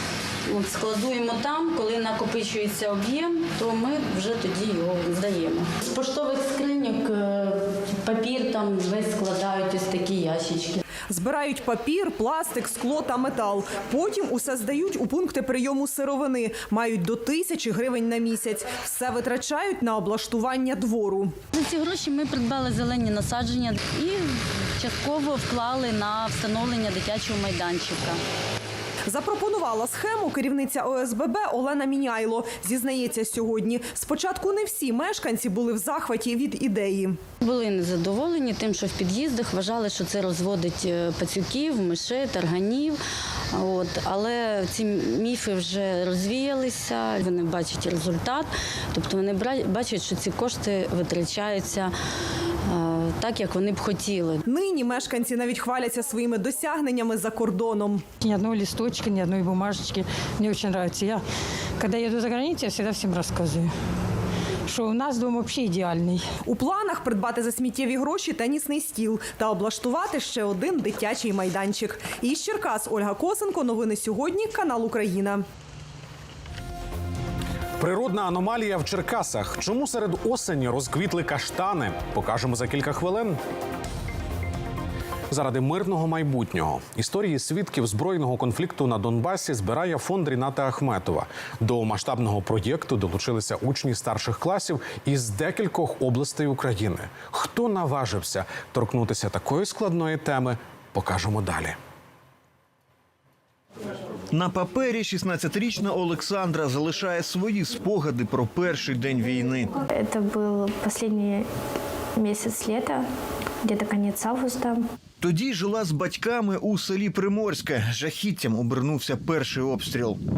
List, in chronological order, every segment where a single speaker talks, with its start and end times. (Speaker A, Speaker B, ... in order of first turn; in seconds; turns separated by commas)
Speaker A: 0.5-10.8, Speaker B: 11.1-21.3, Speaker A: 21.5-28.2, Speaker B: 29.1-37.2, Speaker A: 37.4-43.0, Speaker A: 43.5-51.9, Speaker A: 52.7-54.4, Speaker B: 54.5-58.0, Speaker C: 58.2-61.2, Speaker C: 61.8-63.7, Speaker C: 64.7-66.2, Speaker B: 66.5-75.4, Speaker D: 77.8-83.4, Speaker D: 85.3-101.8, Speaker E: 104.3-109.7, Speaker F: 109.9-111.5, Speaker F: 112.2-113.0, Speaker F: 113.6-114.8, Speaker E: 115.2-120.2